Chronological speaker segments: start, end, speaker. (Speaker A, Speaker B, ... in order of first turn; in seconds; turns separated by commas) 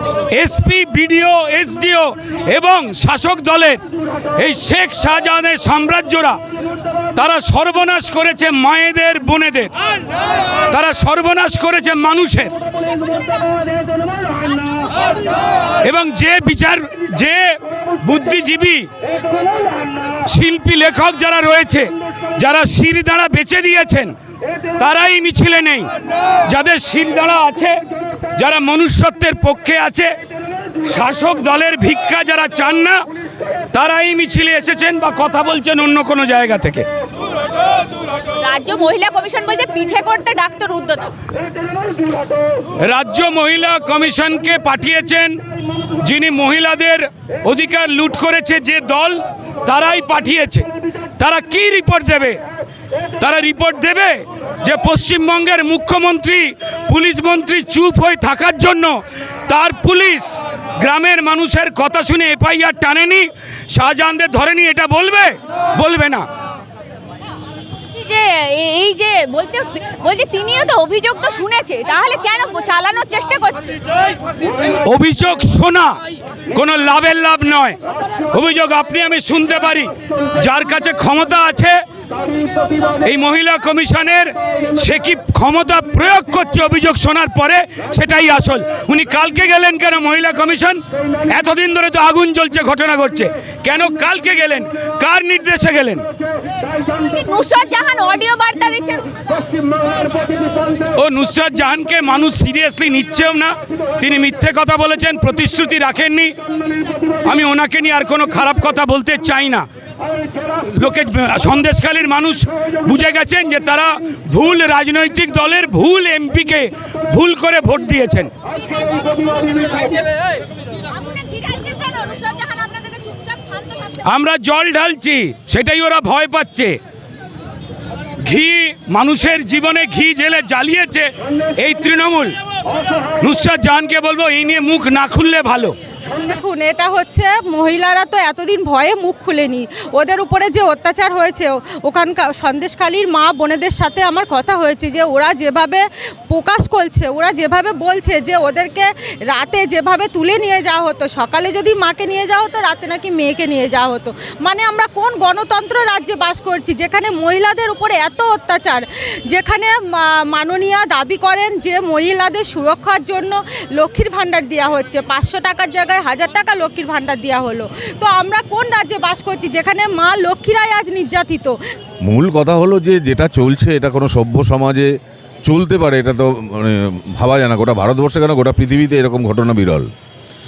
Speaker A: 0.3-3.8, Speaker A: 4.3-6.4, Speaker A: 7.1-9.7, Speaker A: 10.7-12.5, Speaker A: 15.8-18.9, Speaker A: 20.2-24.1, Speaker A: 24.8-25.9, Speaker A: 26.5-27.8, Speaker A: 28.4-30.1, Speaker A: 30.9-33.0, Speaker A: 33.7-36.9, Speaker B: 38.4-41.1, Speaker A: 42.8-45.4, Speaker A: 46.0-50.6, Speaker A: 51.2-52.4, Speaker A: 53.2-66.3, Speaker B: 67.9-73.7, Speaker A: 74.8-76.0, Speaker A: 76.5-77.8, Speaker A: 78.3-81.8, Speaker A: 83.0-96.0, Speaker B: 97.0-99.4, Speaker A: 101.0-106.3, Speaker A: 107.2-109.7, Speaker A: 110.7-118.3, Speaker B: 118.7-120.0, Speaker B: 120.9-124.1, Speaker A: 124.0-126.8, Speaker A: 128.2-132.4, Speaker A: 133.2-135.8, Speaker C: 136.2-171.6, Speaker D: 172.0-174.9, Speaker D: 175.4-179.9